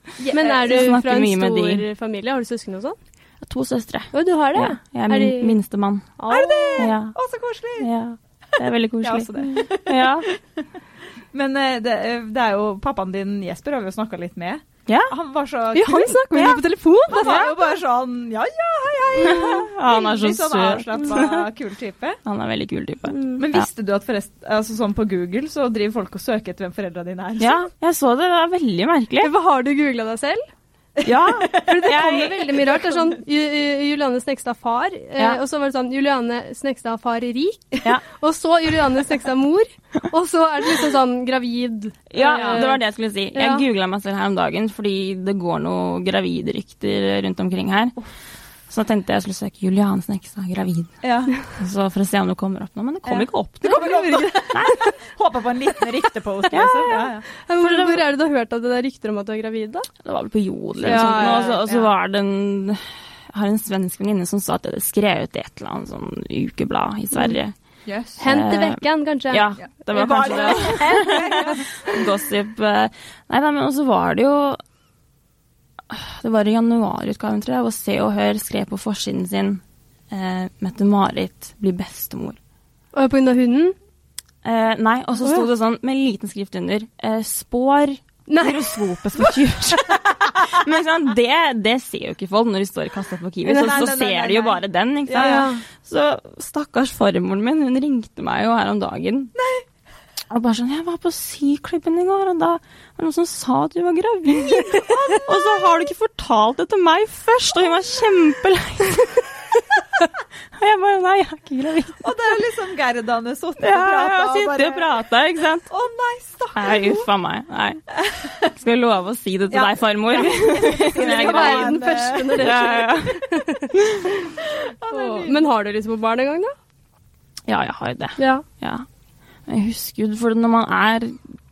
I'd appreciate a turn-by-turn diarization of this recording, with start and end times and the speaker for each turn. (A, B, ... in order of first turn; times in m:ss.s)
0:00.2-0:00.9 A
0:00.3-0:03.0 B
0:00.6-0:01.8 C
0:03.4-0:06.1 C
0:04.1-0:05.6 B
0:06.2-0:06.9 B
0:06.3-0:07.9 A
0:06.8-0:07.1 C
0:07.8-0:10.3 C
0:09.0-0:10.6 A
0:11.3-0:16.3 A
0:14.9-0:15.1 C
0:15.7-0:17.5 B
0:16.3-0:16.6 C
0:17.1-0:22.2 A
0:17.2-0:17.5 C
0:19.2-0:21.5 C
0:19.2-0:19.6 B
0:22.2-0:23.7 C
0:23.1-0:23.4 B
0:23.4-0:27.6 A
0:27.4-0:29.3 C
0:29.2-0:30.4 B
0:31.0-0:32.6 C
0:31.0-0:31.7 A
0:31.6-0:42.8 B
0:42.1-0:48.0 C
0:42.3-0:42.6 A
0:43.3-0:43.6 B
0:48.7-0:50.9 C
0:51.0-0:51.4 A
0:51.5-0:53.8 C
0:53.0-0:57.2 A
0:53.6-0:54.9 B
0:54.5-0:54.8 C
0:56.5-0:57.0 C
0:56.9-0:59.9 B
0:57.6-0:58.0 C
1:00.0-1:07.5 C
1:00.8-1:01.9 A
1:00.8-1:01.6 B
1:07.8-1:08.2 A
1:08.2-1:11.6 B
1:08.2-1:14.6 C
1:09.9-1:11.7 A
1:15.9-1:22.4 C
1:22.9-1:23.7 B
1:24.4-1:39.3 C
1:28.3-1:29.7 B
1:33.5-1:33.8 B
1:33.5-1:35.5 A
1:35.1-1:35.6 B
1:39.4-1:39.6 A
1:40.3-1:49.2 C
1:44.4-1:45.8 A
1:50.5-1:52.0 C
1:52.0-1:55.0 A
1:53.6-1:55.7 C
1:55.7-1:57.1 A
1:56.5-1:57.8 C
1:57.9-1:58.5 A
1:58.4-2:01.8 C
1:59.5-2:02.7 A
2:01.0-2:04.4 B
2:02.3-2:04.0 C
2:04.6-2:05.5 A
2:04.9-2:06.5 B
2:07.5-2:08.8 C
2:08.2-2:08.4 B
2:09.4-2:11.2 C